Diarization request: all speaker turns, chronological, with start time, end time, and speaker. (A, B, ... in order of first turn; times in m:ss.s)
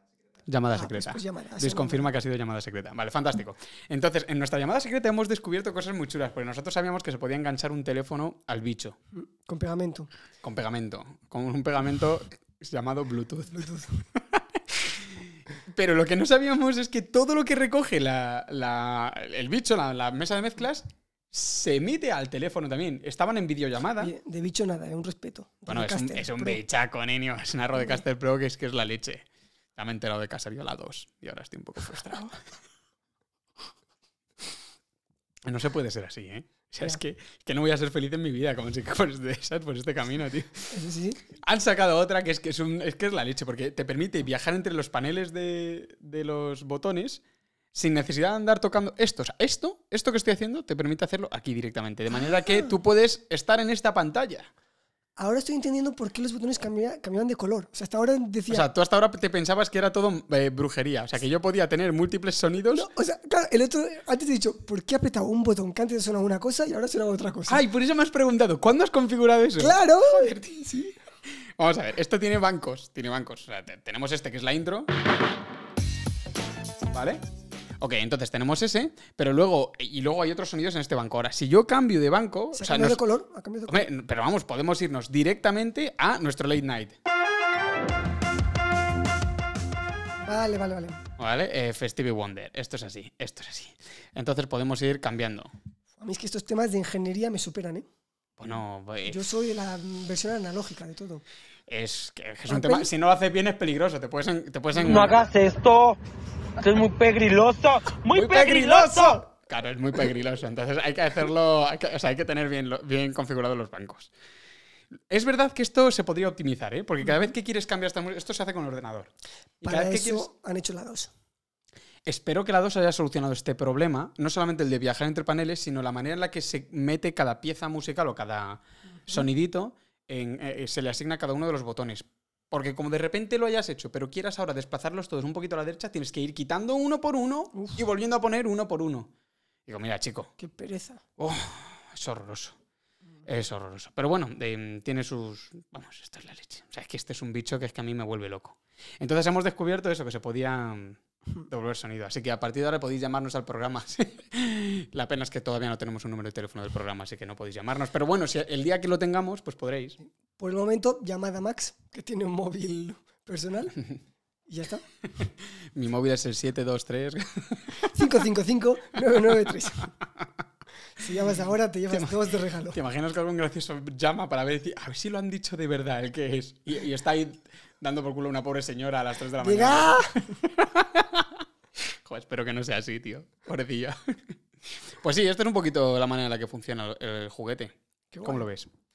0:00.4-0:09.0 A
0:00.7-0:02.1 B
0:09.1-0:10.1 B
0:10.4-0:24.1 A
0:13.5-0:14.0 B
0:24.0-0:26.6 B
0:25.7-0:32.4 A
0:35.4-0:40.7 A
0:40.7-0:41.2 B
0:41.4-0:47.2 A
0:47.7-0:54.5 A
0:55.2-0:58.7 B
0:58.5-1:02.9 A
1:02.7-1:07.6 B
1:07.5-1:10.4 A
1:09.6-1:11.0 B
1:11.6-1:14.9 A
1:16.9-1:17.2 A
1:17.8-1:23.0 A
1:22.5-1:23.9 B
1:23.7-1:27.0 A
1:30.2-1:31.0 B
1:31.2-1:35.5 A
1:36.0-1:37.8 B
1:38.4-1:39.3 A
1:39.1-1:41.2 B
1:41.7-1:45.2 A
1:42.5-1:42.9 B
1:44.8-1:46.0 C
1:46.6-1:49.2 C
1:48.1-1:54.1 A
1:55.1-1:59.1 A
1:59.6-2:00.3 A
1:59.6-2:01.1 B
2:02.0-2:19.1 A
2:17.5-2:17.8 B
2:19.6-2:20.3 A
2:20.4-2:21.0 B
2:21.2-2:22.6 A
2:23.2-2:40.0 A
2:40.4-2:43.8 B
2:44.5-2:44.8 B
2:45.1-2:48.1 A
2:47.8-2:49.9 B
2:51.0-2:52.8 B
2:51.9-3:08.7 A
2:59.4-3:00.3 B
3:08.1-3:08.5 B